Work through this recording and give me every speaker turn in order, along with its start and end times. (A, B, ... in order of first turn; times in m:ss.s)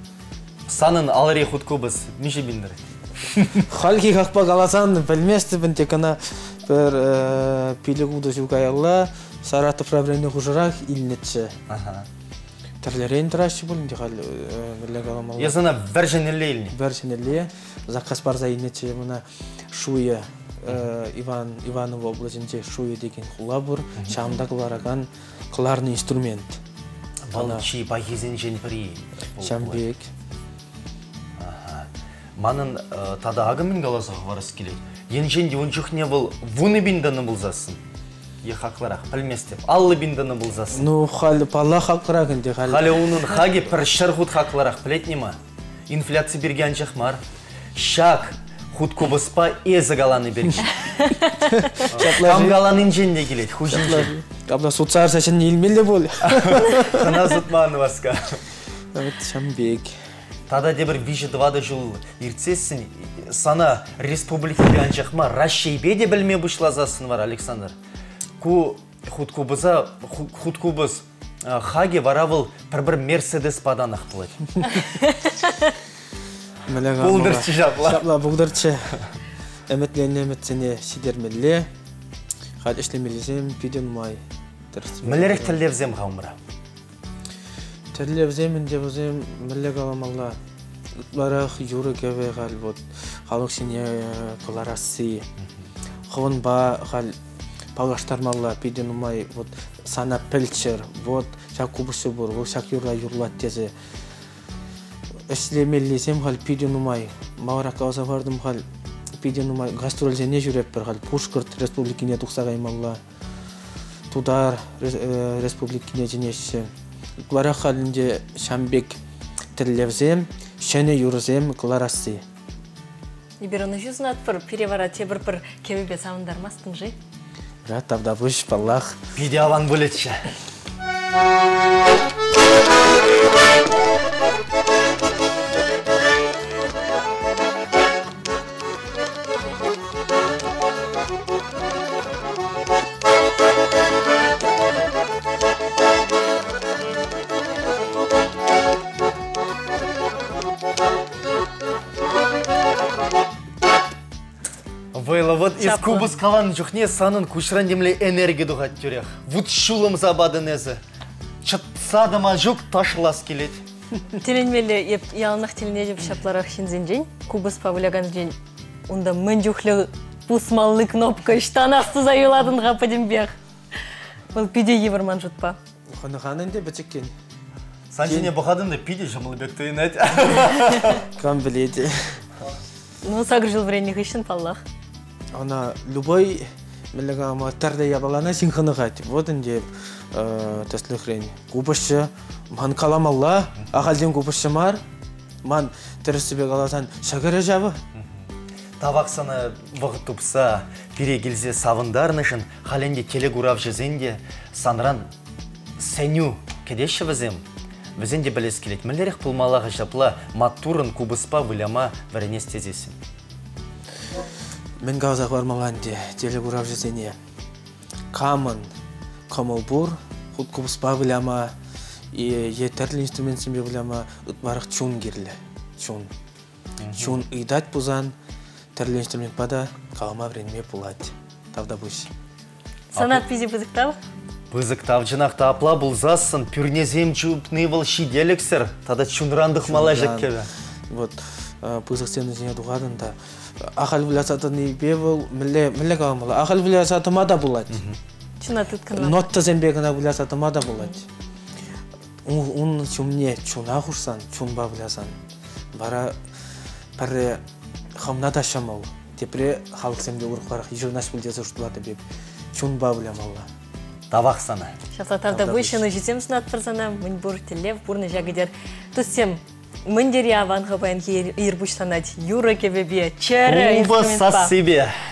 0:00.7-0:03.7 A
0:03.7-0:11.6 B
0:11.7-0:12.1 A
0:12.8-0:15.6 B
0:15.4-0:16.8 A
0:16.7-0:26.6 B
0:24.0-0:24.3 A
0:27.3-0:29.8 A
0:27.3-0:27.7 B
0:29.4-0:30.1 B
0:31.4-0:37.8 A
0:38.4-0:40.9 A
0:40.7-0:43.3 B
0:42.7-0:45.4 A
0:45.9-0:47.2 A
0:47.8-0:50.8 A
0:50.8-0:51.6 C
0:51.5-0:52.8 B
0:51.8-0:54.1 A
0:53.7-0:57.2 B
0:56.2-0:58.4 A
0:58.9-1:00.0 B
1:00.5-1:07.8 A
1:08.4-1:14.7 A
1:16.7-1:19.0 B
1:17.0-1:18.1 A
1:19.7-1:21.7 B
1:22.6-1:25.6 B
1:25.0-1:26.4 A
1:27.9-1:30.4 B
1:31.0-1:35.3 B
1:36.1-1:37.2 B
1:37.8-1:43.7 B
1:45.3-1:48.6 B
1:49.2-1:53.0 B
1:54.1-1:56.7 B
1:57.2-1:59.0 B
1:59.6-2:02.2 B
2:03.4-2:07.0 C
2:07.6-2:09.0 B
2:09.2-2:10.3 A
2:34.9-2:40.8 A
2:35.6-2:36.1 C
2:41.4-2:43.6 A
2:44.2-2:48.4 C
2:48.9-2:53.3 C
2:54.3-2:55.6 C
2:55.9-2:57.1 B
2:57.9-3:01.0 A
2:58.0-2:58.3 B
3:01.0-3:02.2 B
3:03.0-3:04.6 C
3:05.3-3:14.8 B
3:15.4-3:17.8 B
3:18.8-3:25.1 A
3:25.8-3:27.4 A
3:28.0-3:33.0 A
3:34.8-3:37.2 B
3:38.1-3:38.7 B
3:39.3-3:41.5 B
3:42.1-3:46.1 B
3:46.8-3:47.2 A
3:47.0-3:48.2 B
3:48.8-3:52.1 B
3:52.9-3:53.2 A
3:52.9-3:54.0 C
3:54.5-4:00.5 A
3:59.6-4:00.3 B
4:00.9-4:07.8 B
4:07.7-4:08.0 A
4:08.4-4:09.3 C
4:08.9-4:11.0 B
4:12.2-4:15.2 B
4:15.7-4:16.2 B
4:17.0-4:17.4 B
4:17.9-4:22.0 B
4:22.5-4:23.5 B
4:24.1-4:24.7 A
4:24.9-4:34.5 C
4:25.3-4:25.8 B
4:33.5-4:35.0 A